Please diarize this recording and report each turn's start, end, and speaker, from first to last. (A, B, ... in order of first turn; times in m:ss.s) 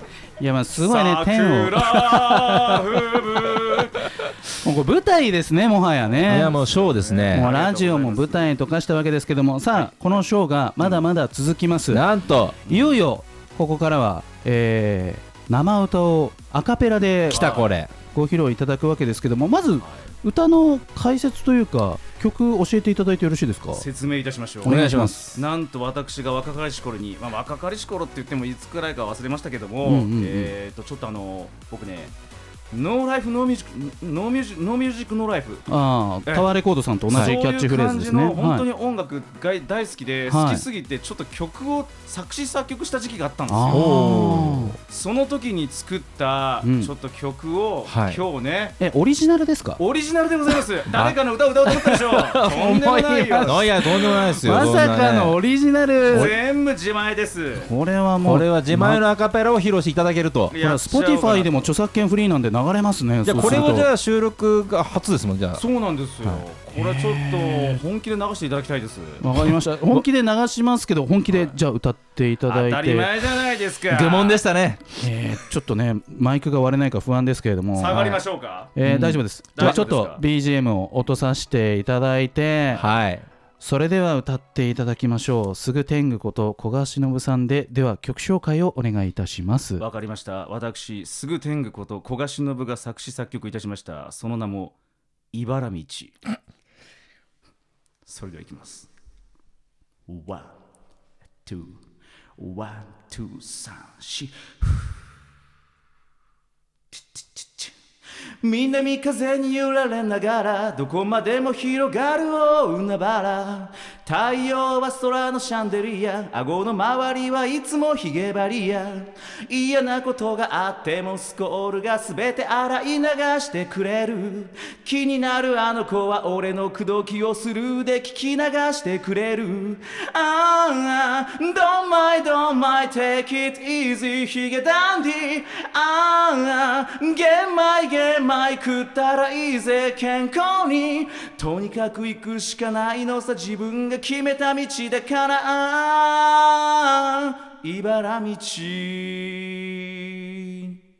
0:00.4-0:02.8 A
0:00.8-0:04.1 B
0:04.6-0:06.6 A
0:06.3-0:07.5 C
0:06.3-0:08.5 B
0:07.3-0:12.0 A
0:09.7-0:10.2 B
0:10.8-0:11.0 B
0:11.9-0:12.6 C
0:12.6-0:13.0 B
0:12.6-0:17.5 A
0:17.3-0:17.9 C
0:17.3-0:17.7 B
0:18.1-0:23.8 A
0:23.7-0:32.1 B
0:24.6-0:25.2 A
0:24.6-0:25.4 C
0:29.8-0:30.5 A
0:32.7-0:35.7 B
0:35.7-0:38.6 A
0:37.1-0:44.0 B
0:40.3-0:40.6 A
0:43.5-0:44.8 A
0:43.7-0:44.8 C
0:44.9-0:48.8 B
0:46.6-0:46.9 A
0:47.8-0:48.2 C
0:48.8-0:49.8 A
0:49.8-0:53.7 B
0:50.9-0:51.2 C
0:51.7-0:56.3 A
0:53.4-0:55.4 C
0:56.1-0:57.7 B
0:57.6-0:59.0 A
0:58.2-1:00.5 C
1:00.5-1:01.6 B
1:00.6-1:03.9 A
1:03.2-1:05.6 C
1:03.4-1:03.8 B
1:05.6-1:09.3 B
1:06.7-1:07.8 A
1:09.2-1:13.1 A
1:11.3-1:11.5 B
1:12.5-1:14.4 B
1:13.9-1:15.0 C
1:15.0-1:18.2 A
1:17.7-1:18.7 B
1:18.7-1:22.8 A
1:18.8-1:19.8 C
1:19.5-1:20.2 B
1:22.8-1:23.2 C
1:23.6-1:29.8 A
1:29.8-1:34.7 B
1:35.3-1:36.2 B
1:38.0-1:38.9 B
1:40.1-1:40.6 B
1:41.4-1:41.8 B
1:42.4-1:45.0 B
1:46.9-1:47.7 B
1:48.4-2:30.7 B